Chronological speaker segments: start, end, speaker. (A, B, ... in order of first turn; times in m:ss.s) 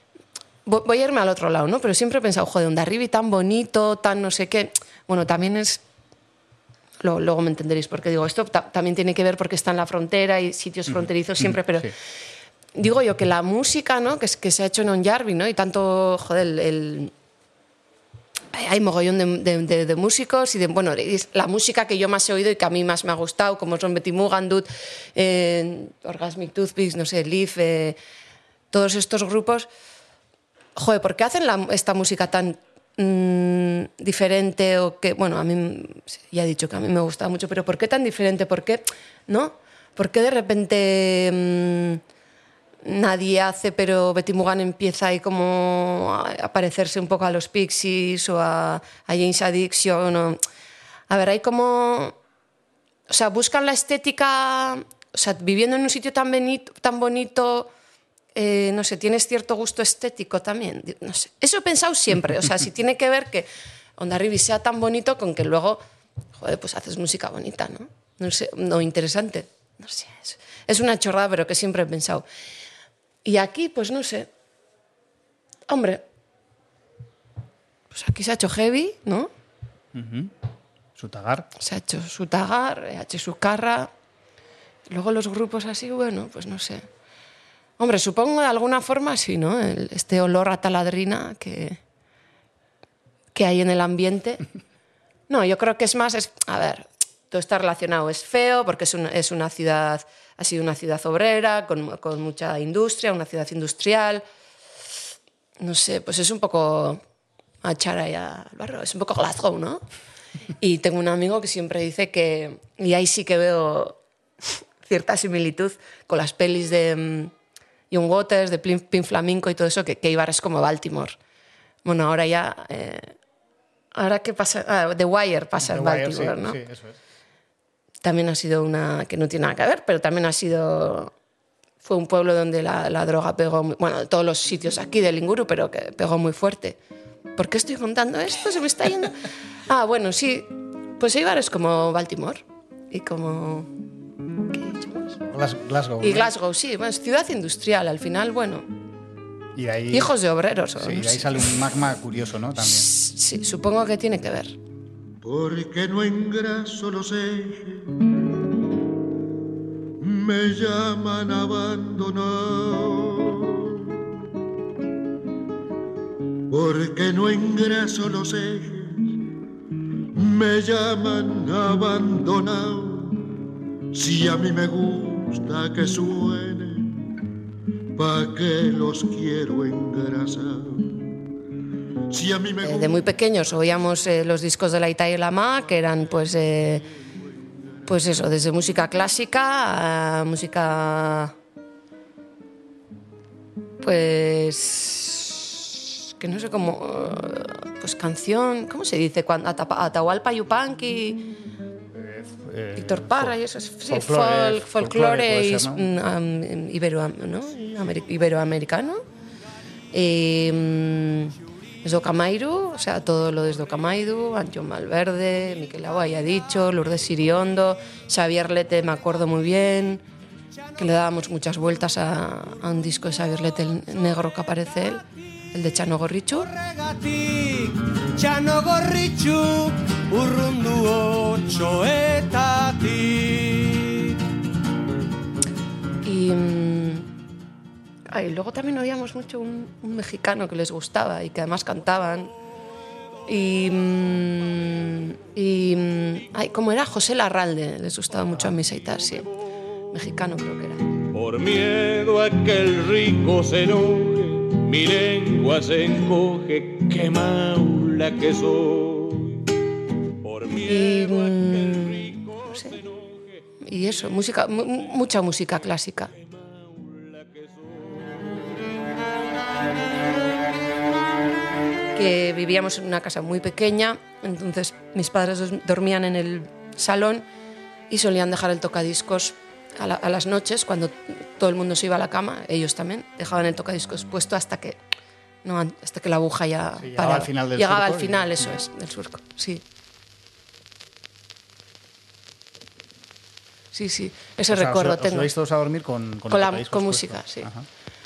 0:00.7-0:05.8 A
0:07.0-0:11.9 A
0:11.0-0:11.9 B
0:12.8-0:17.1 A
0:18.5-0:28.0 A
0:28.7-0:29.7 A
0:30.8-0:42.0 A
0:42.8-0:50.4 A
0:51.1-0:52.2 A
0:53.1-0:57.7 A
0:58.4-1:05.8 A
1:06.4-1:12.2 A
1:13.2-1:14.3 A
1:15.7-1:16.0 A
1:17.9-1:19.3 A
1:19.9-1:20.3 B
1:21.0-1:21.5 B
1:21.6-1:23.9 A
1:24.9-1:26.9 A
1:27.8-1:31.8 A
1:33.3-1:34.4 A
1:35.3-1:44.2 A
1:45.6-1:47.0 A
1:47.6-1:49.8 A
1:50.6-1:54.0 A
1:54.8-1:57.3 A
1:57.9-2:01.2 A
2:01.8-2:03.1 A
2:04.0-2:06.6 A
2:05.6-2:07.0 B
2:08.0-2:11.1 A
2:11.8-2:16.8 A
2:17.4-2:19.2 A
2:19.7-2:23.7 A
2:24.5-2:25.2 A
2:25.3-2:26.3 B
2:26.0-2:28.6 A
2:29.6-2:30.1 B
2:29.9-2:31.5 A
2:30.8-2:32.9 B
2:32.6-2:34.6 A
2:35.2-2:38.1 C
2:40.0-2:44.0 C
2:46.5-2:49.2 C
2:50.2-2:53.2 C
2:53.9-2:57.0 C
2:58.0-3:01.2 C
3:02.1-3:03.1 C
3:02.6-3:06.9 A
3:07.9-3:11.3 A
3:13.8-3:21.2 A
3:21.9-3:23.4 B
3:22.8-3:29.0 A
3:23.9-3:25.8 B
3:29.9-3:40.0 A
3:40.8-3:46.5 A
3:46.6-3:54.2 D
3:56.0-3:57.1 A
3:58.1-4:02.3 A
4:03.3-4:09.3 A
4:09.9-4:10.8 A
4:11.1-4:19.5 E
4:20.2-4:23.6 E
4:20.5-4:22.8 A
4:23.6-4:26.1 A
4:26.2-4:28.5 E
4:32.0-4:37.2 A
4:37.9-4:44.8 A
4:45.4-4:49.6 A
4:46.8-4:48.3 B
4:53.7-4:55.3 A
4:54.5-4:57.6 B
4:56.3-4:57.5 A